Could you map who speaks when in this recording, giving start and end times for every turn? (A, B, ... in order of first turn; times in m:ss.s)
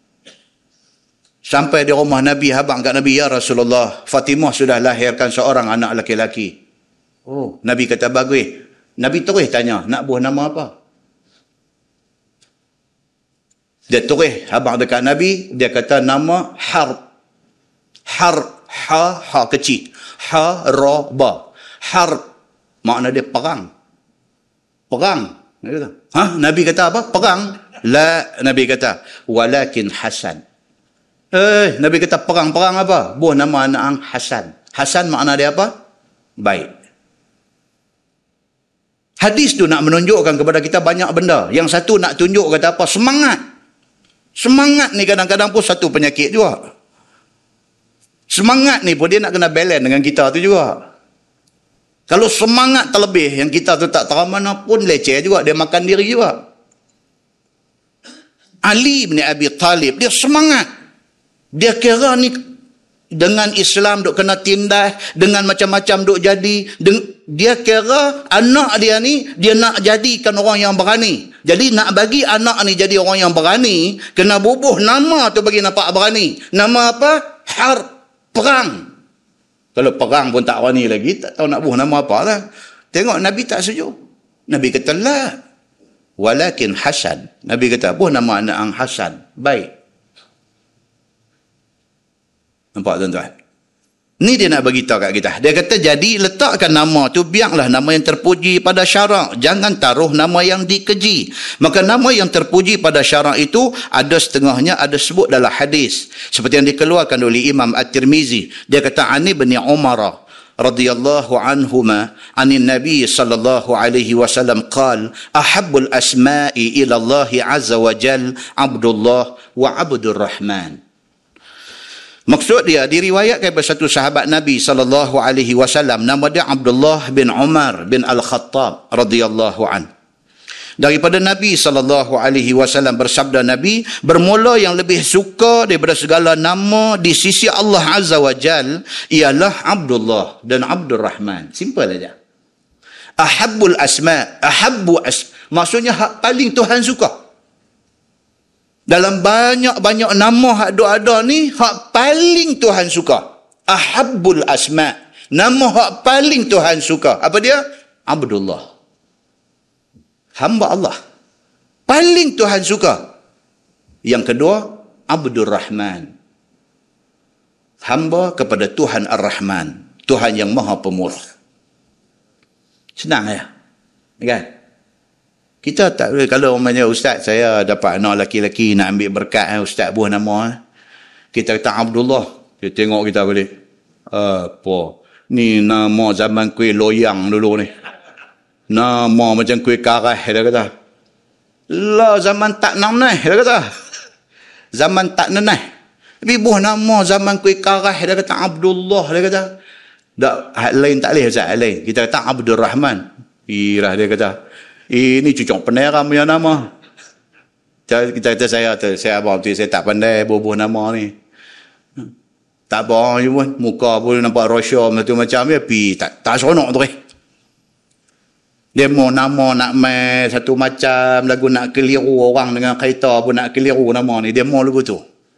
0:01.4-0:06.5 A
0:07.3-0:10.7 A
0:13.9-0:17.0 A
0:18.1-0:22.2 A
0:22.8-0:23.7 A
0:24.9-0:30.4 A
0:31.3-0:35.7 A
0:36.4-0:36.7 A
0:39.2-0:43.4 A
0:44.4-0:46.6 A
0:48.3-0:50.8 A
0:52.1-0:56.4 A
0:58.6-1:00.7 A
1:01.5-1:02.4 A
1:03.1-1:18.8 A
1:19.8-1:23.9 A
1:24.5-1:25.4 A
1:26.2-1:29.7 A
1:32.7-1:33.3 A
1:34.2-2:00.8 A
2:02.3-2:09.9 A
2:10.8-2:22.1 A
2:23.2-2:27.2 A
2:28.9-2:38.7 A
2:40.4-2:41.0 A
2:41.9-2:43.1 A
2:44.0-2:46.1 A
2:47.8-2:51.2 A
2:53.0-2:53.5 A
2:54.2-2:54.5 A
2:55.6-3:00.5 A
3:01.3-3:03.5 A
3:04.1-3:07.7 A
3:08.7-3:10.7 A
3:11.7-3:13.7 A
3:14.7-3:15.6 A
3:16.2-3:19.5 A
3:20.2-3:24.4 A
3:24.9-3:26.7 A
3:27.9-3:31.1 A
3:32.7-3:36.9 A
3:38.7-3:45.0 A